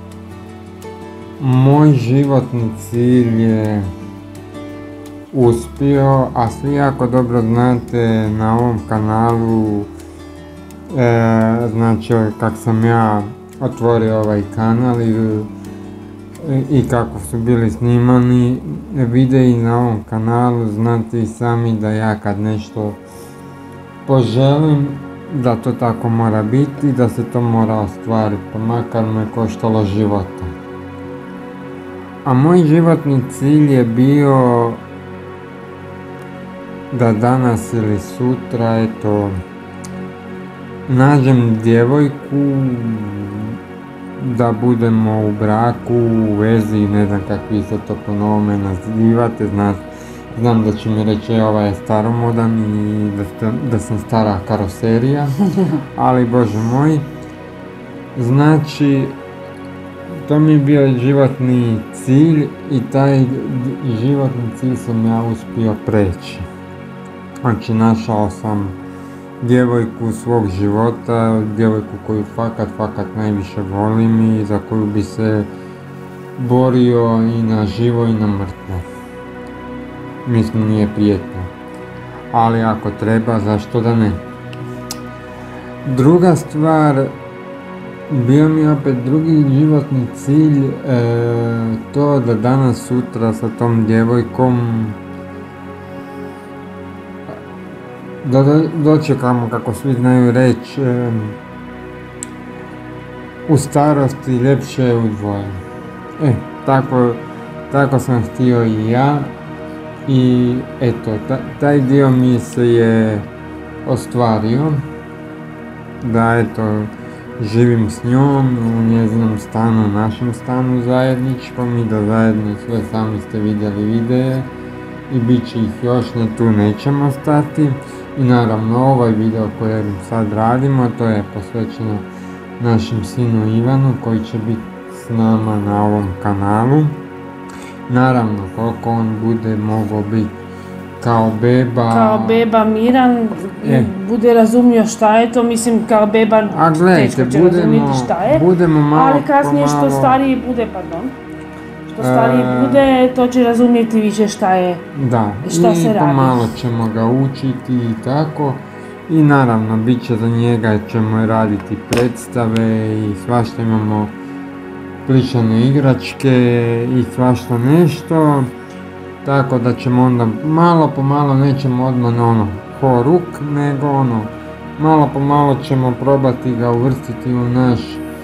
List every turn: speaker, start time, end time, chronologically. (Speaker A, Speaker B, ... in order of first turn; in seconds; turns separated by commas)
Speaker A: 1.4-3.9, Speaker A: 5.3-9.9, Speaker A: 10.9-15.5, Speaker A: 16.4-23.0, Speaker A: 24.1-30.6, Speaker A: 32.2-34.8, Speaker A: 36.9-39.4, Speaker A: 40.9-43.6, Speaker A: 44.2-57.1, Speaker A: 58.1-59.2, Speaker A: 60.2-66.5, Speaker A: 67.4-68.8, Speaker A: 69.4-75.5, Speaker A: 76.4-78.8, Speaker A: 80.2-81.5, Speaker A: 82.3-84.2, Speaker A: 85.8-87.1, Speaker A: 88.1-95.0, Speaker A: 98.2-101.4, Speaker A: 103.5-105.6, Speaker A: 106.2-109.3, Speaker A: 110.1-113.3, Speaker A: 113.8-114.8, Speaker A: 116.0-124.5, Speaker A: 125.1-132.1, Speaker A: 132.6-137.0, Speaker A: 137.9-140.4, Speaker A: 141.0-142.5, Speaker B: 141.9-151.1, Speaker A: 143.6-143.9, Speaker A: 146.5-150.2, Speaker B: 151.9-154.8, Speaker A: 152.0-152.8, Speaker A: 154.9-164.2, Speaker B: 155.4-156.5, Speaker A: 165.1-168.5, Speaker A: 169.2-178.1